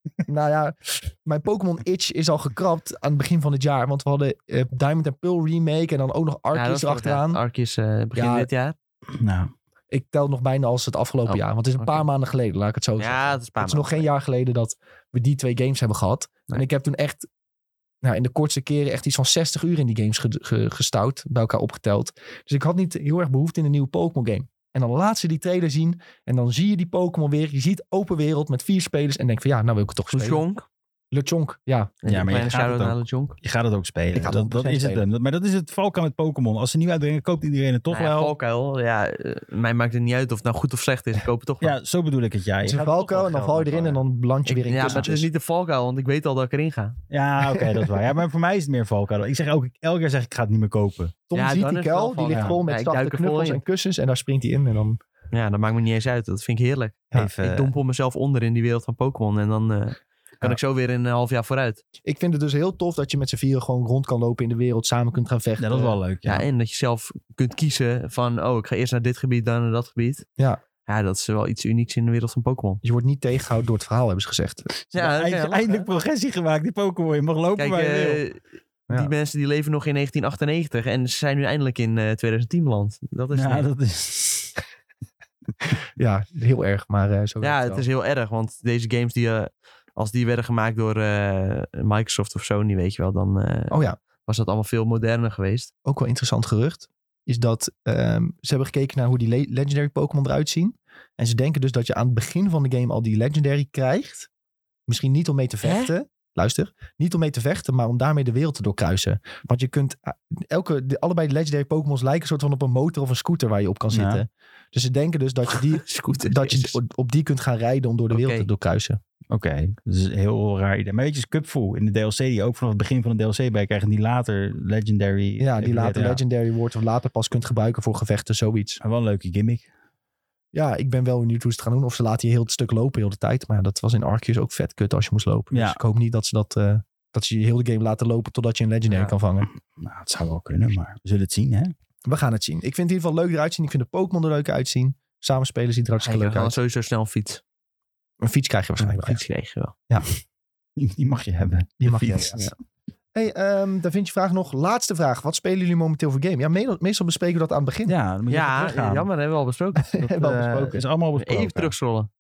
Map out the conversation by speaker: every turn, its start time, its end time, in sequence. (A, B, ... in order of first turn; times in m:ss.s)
0:00.3-0:07.4 A
0:06.5-0:08.8 B
0:08.2-0:08.5 A
0:09.2-0:09.5 C
0:09.9-0:17.3 A
0:11.3-0:12.0 B
0:13.0-0:14.1 B
0:18.0-0:30.4 A
0:30.1-0:30.7 B
0:31.1-0:32.0 A
0:32.0-0:33.4 B
0:32.1-0:38.3 C
0:34.1-0:35.0 A
0:37.9-0:41.8 B
0:41.6-0:44.0 C
0:42.6-0:45.3 A
0:42.8-0:43.7 B
0:44.5-0:47.0 B
0:47.1-0:51.2 C
0:47.4-0:48.0 A
0:51.3-0:55.0 A
0:51.4-0:53.6 B
0:52.3-0:52.6 C
0:55.3-1:01.8 B
0:57.1-0:57.7 C
1:02.0-1:06.0 A
1:05.6-1:06.5 C
1:06.2-1:10.3 B
1:10.9-1:12.8 B
1:12.8-1:14.7 A
1:14.8-1:18.2 C
1:14.9-1:15.9 B
1:17.6-1:23.7 B
1:23.3-1:24.6 C
1:26.0-1:27.8 A
1:27.4-1:35.7 B
1:33.7-1:34.0 A
1:35.8-1:44.3 A
1:44.9-1:59.0 A
1:45.6-1:45.9 B
1:53.9-1:54.2 C
1:55.5-1:56.8 B
1:58.1-1:58.5 B
1:59.3-2:06.2 C
2:05.4-2:08.8 A
2:08.8-2:09.7 C
2:10.5-2:19.5 A
2:15.5-2:15.8 C
2:19.7-2:21.7 C
2:22.1-2:26.6 A
2:26.0-2:27.4 B
2:28.2-2:29.2 A
2:28.8-2:29.7 B
2:30.8-2:32.4 C
2:31.8-2:32.5 A
2:33.1-2:38.0 A
2:37.9-2:39.1 C
2:38.3-2:40.2 B
2:39.9-2:40.9 A
2:40.1-2:41.8 C
2:41.2-2:42.1 B